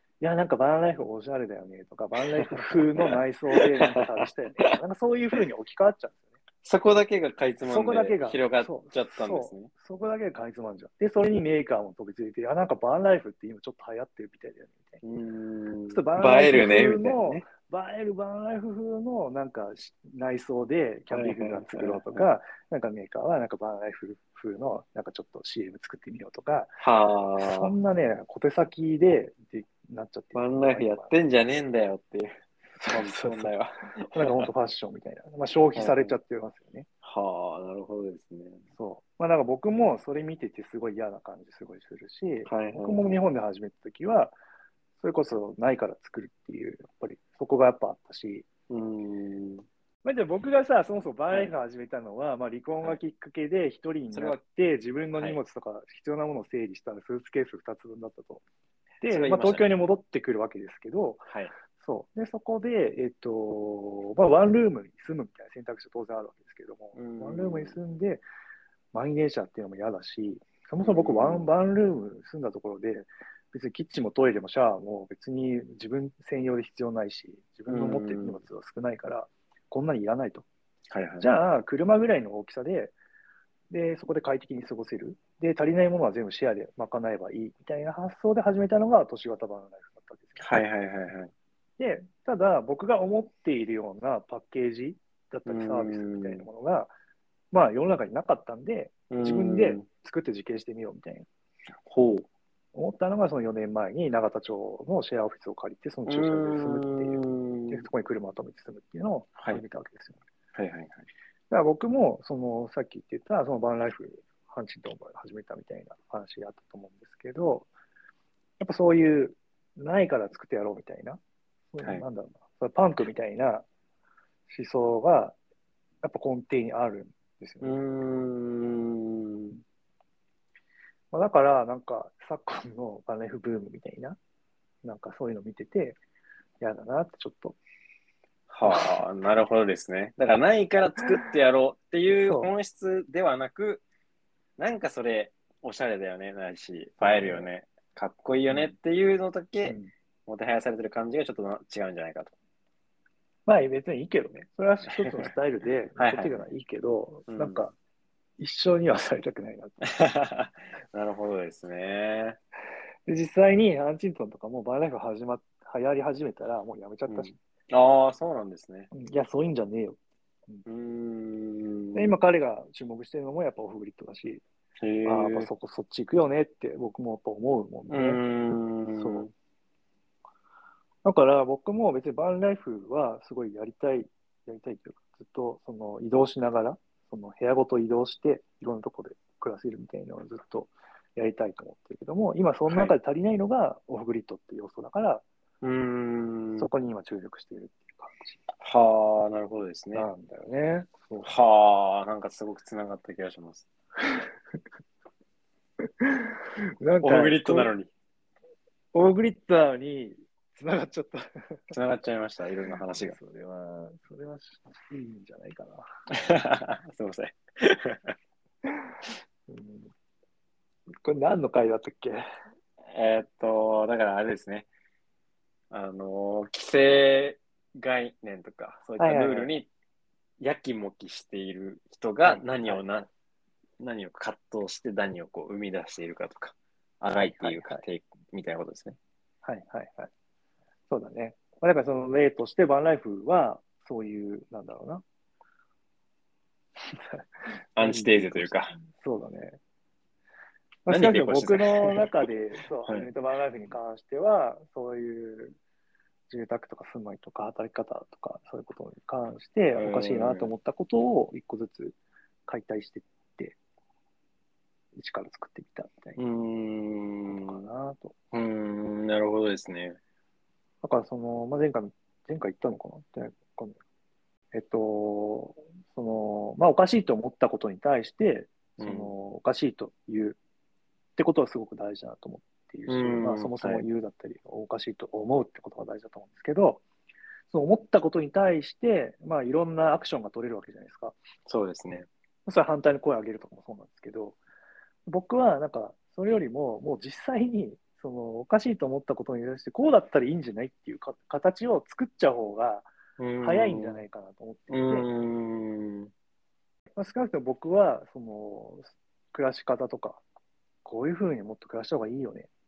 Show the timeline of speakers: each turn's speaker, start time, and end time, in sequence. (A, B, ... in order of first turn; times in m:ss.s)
0:00.2-0:06.2 A
0:02.2-0:04.8 B
0:06.6-0:09.7 B
0:07.6-0:15.0 A
0:15.0-0:17.5 B
0:15.9-0:26.8 A
0:21.1-0:22.2 B
0:26.8-0:27.7 B
0:27.4-0:31.1 A
0:30.3-0:32.3 B
0:32.8-0:33.5 A
0:32.8-0:34.5 B
0:34.1-0:36.9 A
0:35.7-0:36.2 B
0:37.0-0:38.6 B
0:38.7-0:44.3 A
0:42.4-0:43.1 B
0:45.0-0:48.4 A
0:48.7-0:49.6 B
0:50.0-0:58.4 A
0:54.1-0:54.4 B
0:55.2-0:55.4 B
0:59.0-1:08.2 A
0:59.1-0:59.7 B
1:06.9-1:07.8 B
1:08.9-1:20.4 A
1:10.8-1:11.5 B
1:17.7-1:18.4 B
1:20.9-1:21.3 B
1:21.2-1:22.9 A
1:23.7-1:30.6 A
1:30.4-1:31.3 B
1:31.8-1:36.9 A
1:35.4-1:36.5 B
1:37.5-1:41.3 A
1:39.1-1:39.8 B
1:41.8-1:42.2 B
1:42.7-1:50.2 A
1:46.1-1:47.8 B
1:49.4-1:49.6 B
1:50.5-1:51.0 B
1:51.5-1:57.7 A
1:58.6-2:01.2 A
2:01.7-2:03.6 A
2:04.5-2:05.4 A
2:06.0-2:07.8 A
2:07.6-2:09.6 B
2:11.1-2:14.2 A
2:14.8-2:16.0 A
2:16.6-2:17.6 A
2:18.5-2:23.8 B
2:18.6-2:19.0 A
2:22.2-2:22.5 A
2:24.6-2:32.3 B
2:27.0-2:27.5 A
2:28.5-2:28.8 A
2:29.6-2:29.9 A
2:33.4-2:37.7 A
2:34.9-2:35.3 B
2:36.0-2:36.5 B
2:37.3-2:37.6 B
2:38.4-2:39.9 A
2:39.9-2:42.4 B
2:43.1-2:47.3 A
2:47.1-2:48.9 B
2:48.9-2:50.6 A
2:50.6-2:52.2 B
2:51.9-2:54.4 A
2:54.8-2:55.5 B
2:55.0-2:59.3 A
2:57.9-2:59.3 B
3:01.0-3:15.2 A
3:12.7-3:12.9 B
3:15.6-3:16.7 B
3:16.6-3:18.4 A
3:18.6-3:20.1 B
3:19.9-3:21.3 A
3:21.2-3:23.6 B
3:24.0-3:24.6 A
3:26.0-3:27.7 A
3:27.0-3:27.9 B
3:28.9-3:31.7 A
3:31.7-3:33.2 B
3:32.8-3:35.8 A
3:36.2-3:38.1 B
3:39.5-3:39.9 A
3:41.0-3:42.2 A
3:42.9-3:44.7 B
3:45.7-3:49.7 B
3:49.0-3:49.6 A
3:50.4-3:53.1 B
3:52.2-3:52.9 A
3:53.8-3:59.0 B
3:57.2-3:57.8 A
3:59.4-4:00.1 A
4:00.9-4:05.0 A
4:06.8-4:09.6 A
4:07.8-4:08.7 B
4:10.8-4:15.6 A
4:10.9-4:12.2 B
4:12.8-4:13.1 B
4:16.3-4:23.6 A
4:19.7-4:20.5 B
4:24.9-4:26.2 A
4:26.2-4:27.7 B
4:27.3-4:28.1 A
4:28.3-4:30.0 B
4:30.8-4:33.8 A
4:34.5-4:40.4 A
4:38.8-4:39.1 B
4:41.2-4:46.8 A
4:42.9-4:43.8 B
4:47.5-4:51.2 A
4:51.5-4:52.1 B
4:52.4-4:54.4 A
4:55.0-5:02.9 A
5:03.2-5:04.0 B
5:03.4-5:05.1 A
5:04.7-5:06.1 B
5:07.0-5:10.2 A
5:10.8-5:12.5 A